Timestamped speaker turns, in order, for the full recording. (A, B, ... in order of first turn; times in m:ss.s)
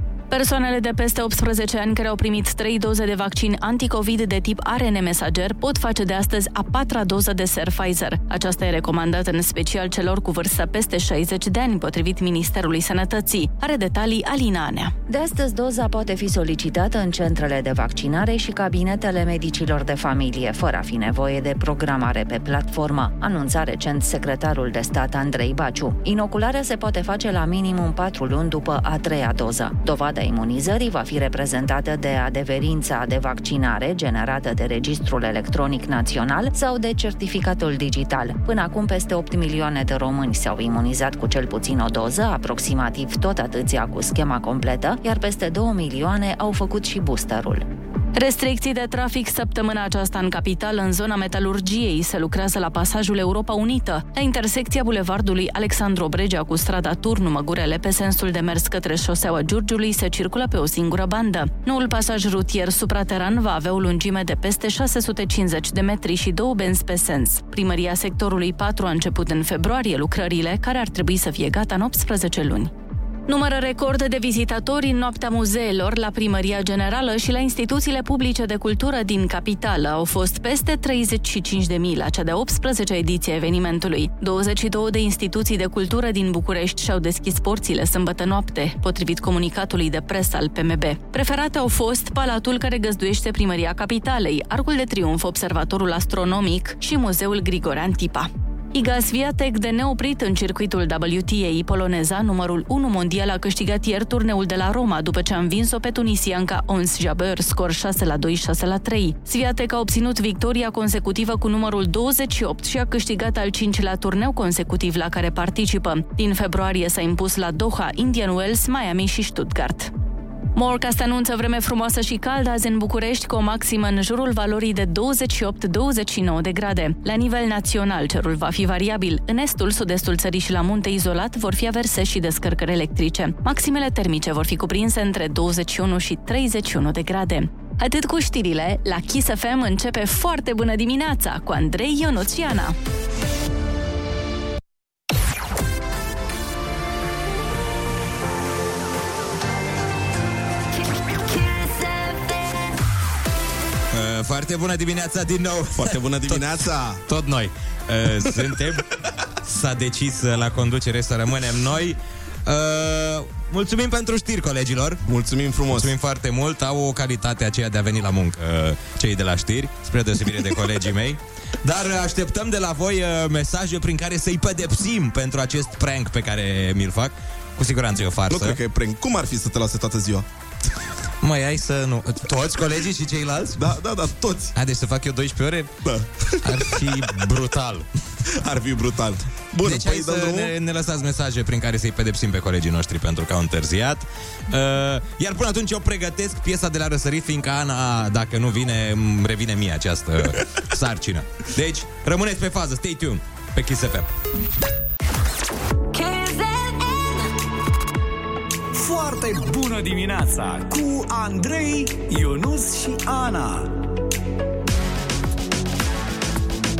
0:00.3-0:14.9 A
0:15.1-0:47.6 B
0:48.2-1:12.7 A
1:13.3-1:59.9 A
2:00.6-2:22.8 A
2:33.9-2:36.5 C
2:35.8-2:37.0 D
2:37.1-2:38.8 C
2:39.4-2:45.0 C
2:45.1-2:45.9 D
2:45.7-2:58.6 C
2:58.3-3:00.3 D
3:01.2-3:03.7 C
3:03.6-3:04.5 D
3:04.6-3:05.7 C
3:05.9-3:06.5 D
3:06.4-3:07.9 C
3:08.3-3:10.5 D
3:09.6-3:24.1 C
3:28.7-3:33.7 E